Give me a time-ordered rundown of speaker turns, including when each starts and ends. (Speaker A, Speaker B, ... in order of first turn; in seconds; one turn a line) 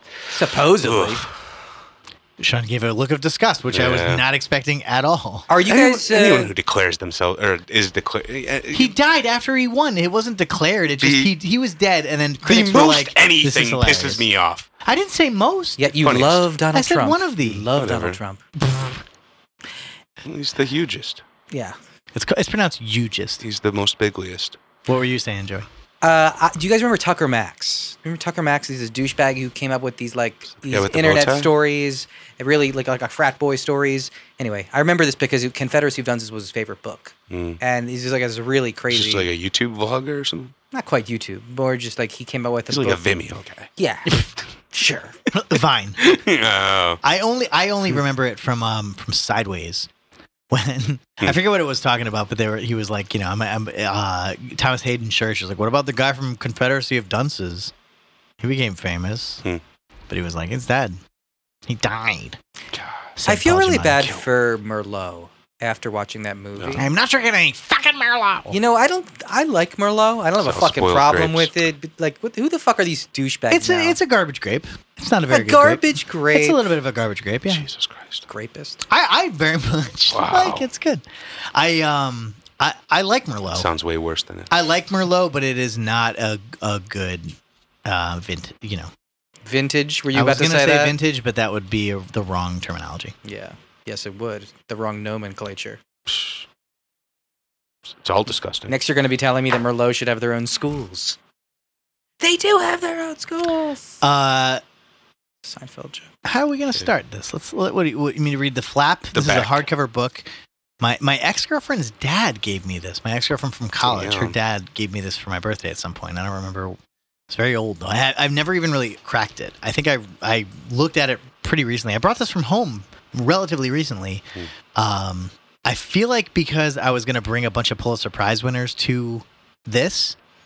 Speaker A: 0.3-1.2
Speaker B: 0.8-1.6
Speaker C: 2.4-5.5
Speaker B: 3.7-4.2
Speaker A: 5.5-6.5
Speaker B: 5.6-8.9
Speaker C: 8.7-14.2
Speaker B: 11.0-11.3
Speaker B: 12.4-14.7
Speaker C: 14.8-15.8
Speaker A: 15.8-18.4
Speaker B: 16.0-16.5
Speaker C: 16.7-17.7
Speaker B: 17.7-18.2
Speaker C: 18.6-19.0
Speaker B: 20.2-21.2
Speaker A: 21.5-21.8
Speaker C: 22.1-23.4
Speaker B: 23.4-24.6
Speaker C: 24.9-25.7
Speaker A: 26.0-39.3
Speaker B: 30.6-31.5
Speaker B: 37.3-37.6
Speaker B: 38.9-40.5
Speaker A: 40.7-43.0
Speaker B: 42.7-43.7
Speaker A: 43.8-45.1
Speaker C: 45.3-46.0
Speaker B: 46.0-47.0
Speaker C: 47.0-49.9
Speaker C: 50.5-57.7
Speaker C: 58.4-59.4
Speaker C: 60.1-61.0
Speaker C: 61.7-62.4
Speaker B: 62.7-63.1
Speaker C: 63.2-64.2
Speaker A: 63.2-66.9
Speaker B: 66.6-66.8
Speaker C: 66.8-68.6
Speaker A: 68.5-74.0
Speaker B: 70.4-71.5
Speaker C: 73.5-77.7
Speaker A: 75.3-76.7
Speaker B: 77.5-78.2
Speaker A: 78.3-78.8
Speaker C: 78.9-83.7
Speaker B: 80.1-80.7
Speaker B: 83.5-84.5
Speaker C: 84.5-88.9
Speaker A: 89.4-91.0
Speaker C: 90.1-93.1
Speaker A: 93.2-95.8
Speaker B: 96.1-96.4
Speaker B: 97.9-98.7
Speaker A: 98.7-101.2
Speaker A: 102.2-104.0
Speaker C: 104.0-104.6
Speaker A: 105.4-106.1
Speaker C: 106.2-110.3
Speaker B: 109.1-109.7
Speaker C: 110.8-116.8
Speaker B: 113.8-114.3
Speaker C: 117.3-130.2